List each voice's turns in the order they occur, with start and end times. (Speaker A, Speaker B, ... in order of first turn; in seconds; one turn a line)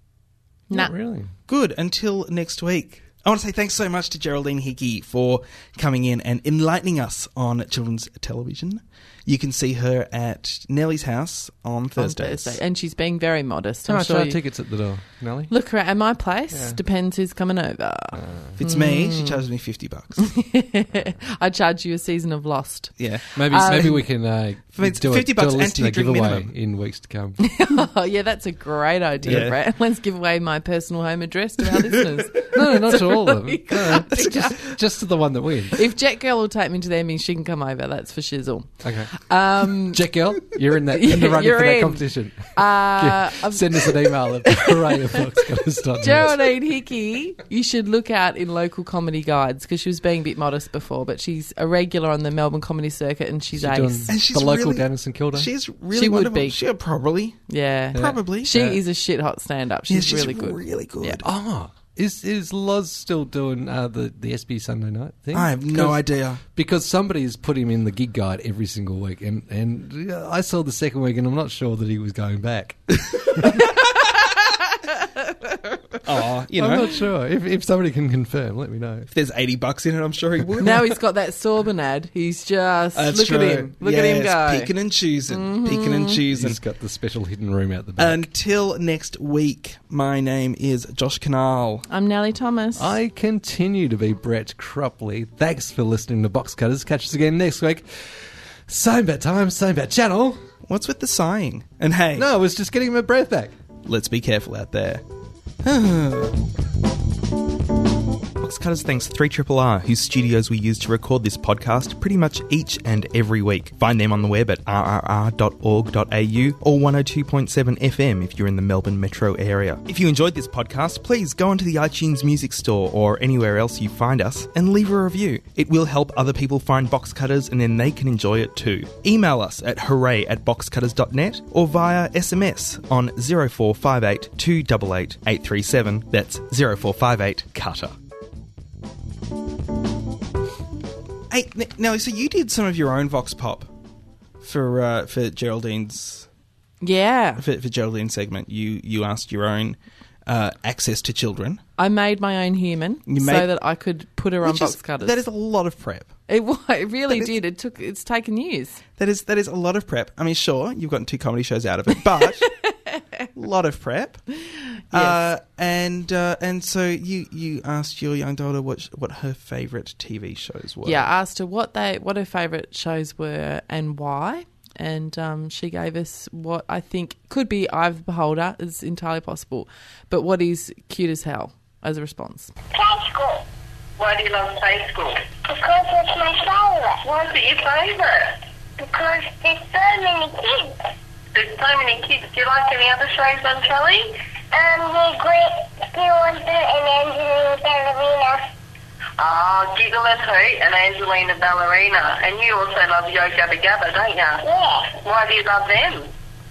Speaker A: 0.7-1.3
Speaker B: 1.5-12.6
Speaker C: 12.0-14.4
Speaker A: 13.8-15.5
Speaker C: 15.5-19.4
Speaker A: 16.5-16.8
Speaker A: 18.1-18.6
Speaker B: 18.6-20.3
Speaker C: 20.2-23.9
Speaker B: 23.0-24.0
Speaker A: 23.4-27.5
Speaker B: 24.7-26.5
Speaker C: 27.5-34.5
Speaker A: 29.2-29.5
Speaker B: 29.2-29.6
Speaker A: 32.3-35.8
Speaker B: 34.2-34.6
Speaker C: 35.7-40.0
Speaker A: 38.8-46.4
Speaker C: 40.9-45.1
Speaker C: 46.0-54.1
Speaker A: 53.5-55.5
Speaker B: 54.1-57.4
Speaker C: 55.9-56.6
Speaker C: 57.5-61.2
Speaker B: 57.9-58.7
Speaker A: 57.9-58.8
Speaker B: 59.9-61.2
Speaker A: 61.2-66.0
Speaker B: 65.3-66.4
Speaker A: 66.5-73.6
Speaker C: 73.5-75.5
Speaker B: 76.0-76.9
Speaker A: 76.5-79.1
Speaker B: 79.1-80.8
Speaker C: 80.6-84.7
Speaker B: 82.9-86.6
Speaker C: 85.3-86.2
Speaker A: 86.3-88.3
Speaker B: 88.0-91.8
Speaker C: 91.9-93.0
Speaker A: 92.8-100.4
Speaker B: 100.7-102.3
Speaker A: 102.1-103.5
Speaker B: 103.8-105.0
Speaker B: 105.6-106.4
Speaker B: 108.4-137.9
Speaker B: 141.3-143.7
Speaker B: 144.4-146.3
Speaker C: 146.8-147.4
Speaker B: 147.4-151.6
Speaker C: 151.8-155.2
Speaker B: 153.1-153.5
Speaker B: 154.4-156.1
Speaker C: 156.3-158.8
Speaker B: 159.0-162.5
Speaker B: 163.3-164.2
Speaker C: 164.5-165.2
Speaker B: 164.9-171.1
Speaker C: 170.8-182.5
Speaker D: 182.7-183.4
Speaker D: 184.0-190.8
Speaker D: 191.3-198.5
Speaker D: 199.2-206.1